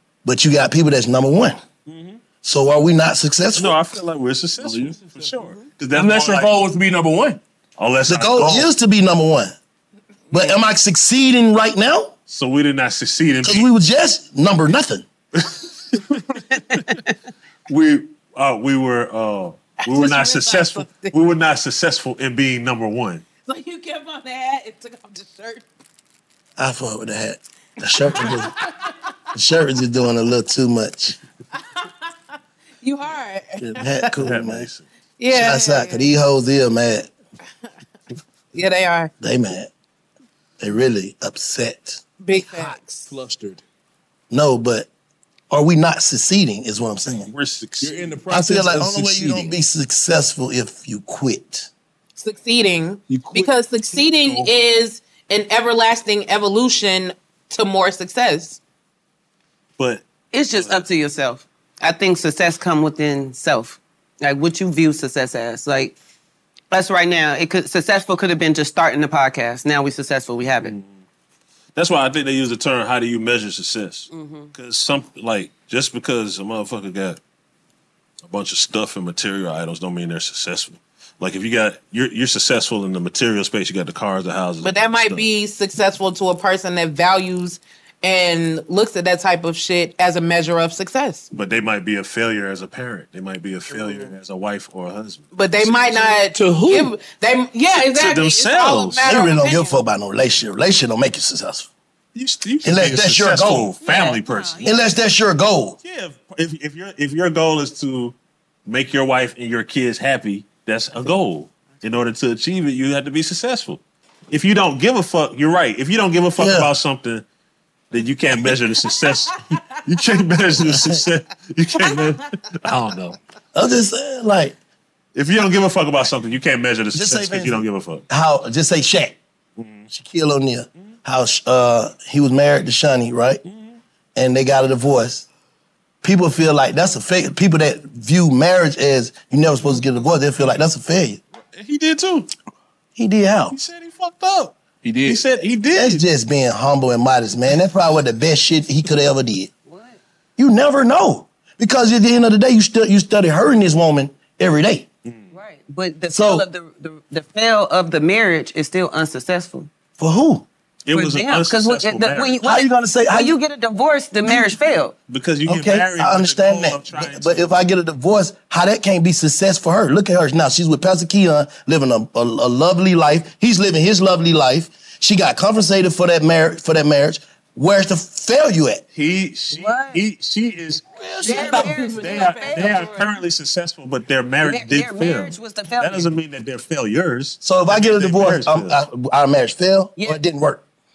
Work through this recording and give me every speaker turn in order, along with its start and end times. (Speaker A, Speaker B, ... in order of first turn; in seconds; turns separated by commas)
Speaker A: 0.2-1.6, Speaker B: 1.9-2.2, Speaker A: 2.4-3.8, Speaker B: 3.5-6.5, Speaker C: 4.6-7.4, Speaker B: 7.8-8.7, Speaker A: 8.1-9.5, Speaker A: 10.3-12.1, Speaker B: 12.3-13.7, Speaker A: 13.4-15.1, Speaker B: 15.3-16.0, Speaker B: 17.7-23.2, Speaker D: 19.8-21.1, Speaker D: 23.4-25.7, Speaker A: 26.6-28.5, Speaker D: 28.2-28.7, Speaker A: 29.3-31.2, Speaker D: 32.8-33.8, Speaker A: 33.6-34.7, Speaker B: 34.2-34.9, Speaker D: 35.2-36.1, Speaker A: 35.3-37.1, Speaker D: 38.5-39.1, Speaker A: 39.2-39.7, Speaker A: 40.6-42.0, Speaker D: 42.2-43.1, Speaker C: 42.4-43.6, Speaker A: 44.3-44.9, Speaker A: 45.5-47.3, Speaker B: 47.3-48.0, Speaker C: 47.8-49.6, Speaker A: 48.3-51.7, Speaker D: 52.1-58.6, Speaker C: 53.1-53.5, Speaker B: 54.1-54.5, Speaker B: 59.8-60.8, Speaker E: 60.3-66.0, Speaker E: 66.7-70.7, Speaker B: 70.4-71.0, Speaker B: 71.7-77.2, Speaker E: 74.1-74.5, Speaker B: 78.2-85.3, Speaker D: 84.6-91.3, Speaker B: 91.3-96.2, Speaker D: 95.3-99.8, Speaker C: 96.3-96.9, Speaker B: 97.8-99.2, Speaker A: 99.0-101.7, Speaker B: 102.1-104.7, Speaker A: 102.6-103.7, Speaker E: 103.8-104.8, Speaker A: 104.6-105.8, Speaker B: 105.8-108.1, Speaker B: 108.7-117.2, Speaker A: 116.4-116.7, Speaker B: 117.9-123.2, Speaker A: 120.6-121.0, Speaker A: 123.5-124.5, Speaker B: 125.1-128.0, Speaker A: 126.9-129.2, Speaker B: 129.6-129.9, Speaker A: 129.9-133.4, Speaker B: 133.4-133.8, Speaker A: 134.2-135.3, Speaker A: 136.0-141.2, Speaker B: 141.5-142.3, Speaker A: 142.9-143.6, Speaker B: 143.5-144.5, Speaker C: 144.8-145.2, Speaker B: 145.0-146.0, Speaker A: 145.7-149.5, Speaker E: 149.7-150.0, Speaker A: 150.4-154.9, Speaker B: 155.0-155.3, Speaker E: 155.3-159.7, Speaker A: 156.1-156.5, Speaker A: 160.0-160.4, Speaker B: 160.8-162.4, Speaker E: 160.9-164.9, Speaker A: 162.4-163.4, Speaker B: 165.1-167.6, Speaker A: 165.4-178.8, Speaker B: 178.9-188.8, Speaker E: 179.5-180.0, Speaker A: 180.9-181.8, Speaker E: 181.2-183.1, Speaker D: 181.3-182.9, Speaker E: 184.4-186.1, Speaker A: 187.4-190.6